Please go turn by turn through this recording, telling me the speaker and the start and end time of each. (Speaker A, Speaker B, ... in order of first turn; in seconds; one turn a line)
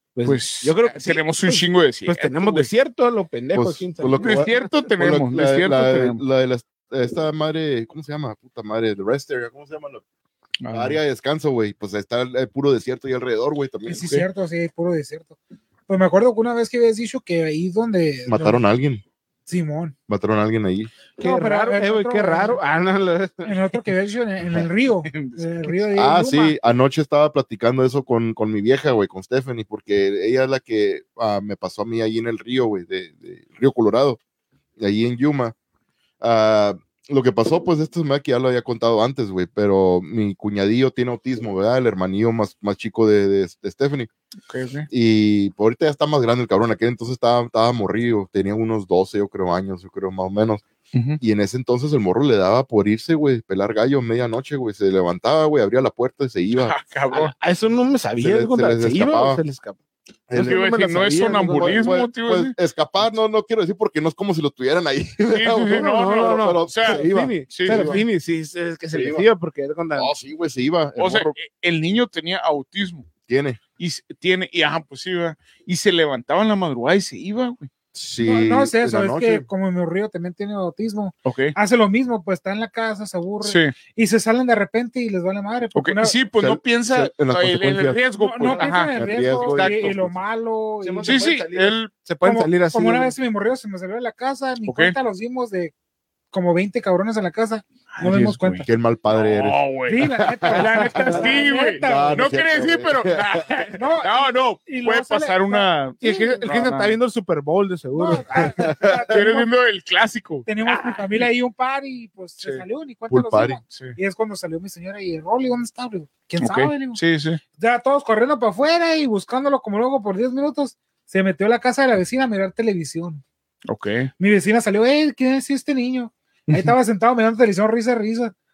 Speaker A: 0.1-4.7
Speaker B: 0.2-2.7
Speaker C: 3.5-10.0
Speaker B: 4.2-6.2
Speaker B: 10.6-11.0
Speaker C: 10.7-14.2
Speaker D: 13.8-18.6
Speaker C: 18.3-19.0
Speaker D: 19.4-19.9
Speaker C: 20.1-20.9
Speaker A: 21.2-23.6
Speaker D: 21.2-22.6
Speaker D: 23.4-26.6
Speaker B: 25.0-25.9
Speaker C: 25.9-34.2
Speaker C: 34.8-35.5
Speaker C: 36.2-44.1
Speaker B: 44.5-44.9
Speaker C: 44.9-50.6
Speaker B: 50.9-51.2
Speaker C: 51.2-56.7
Speaker B: 56.6-57.3
Speaker A: 57.1-59.8
Speaker C: 58.2-59.4
Speaker C: 60.3-60.7
Speaker A: 60.3-62.0
Speaker B: 60.4-62.5
Speaker C: 61.4-68.0
Speaker B: 65.3-67.9
Speaker A: 65.7-70.1
Speaker C: 68.9-69.3
Speaker C: 69.9-71.3
Speaker B: 71.0-73.1
Speaker C: 73.3-73.6
Speaker B: 73.8-77.7
Speaker C: 77.9-79.5
Speaker D: 78.2-86.2
Speaker B: 81.2-81.5
Speaker B: 83.4-83.7
Speaker B: 85.7-88.9
Speaker C: 86.4-88.0
Speaker D: 88.1-91.3
Speaker A: 88.4-88.9
Speaker C: 88.9-90.2
Speaker B: 89.5-90.0
Speaker A: 90.8-93.1
Speaker B: 91.0-91.9
Speaker D: 92.2-95.7
Speaker B: 94.7-94.9
Speaker D: 96.3-98.7
Speaker B: 97.9-107.0
Speaker C: 98.6-99.6
Speaker D: 99.9-102.3
Speaker C: 100.2-100.9
Speaker A: 100.5-101.4
Speaker C: 101.8-103.5
Speaker D: 103.7-105.7
Speaker A: 106.0-108.5
Speaker D: 107.9-109.5
Speaker C: 108.6-109.2
Speaker B: 109.1-111.3
Speaker D: 110.5-117.0
Speaker C: 113.1-113.6
Speaker B: 113.7-114.0
Speaker B: 116.4-117.4
Speaker D: 117.6-123.2
Speaker B: 123.7-124.1
Speaker D: 124.2-128.3
Speaker B: 126.5-126.7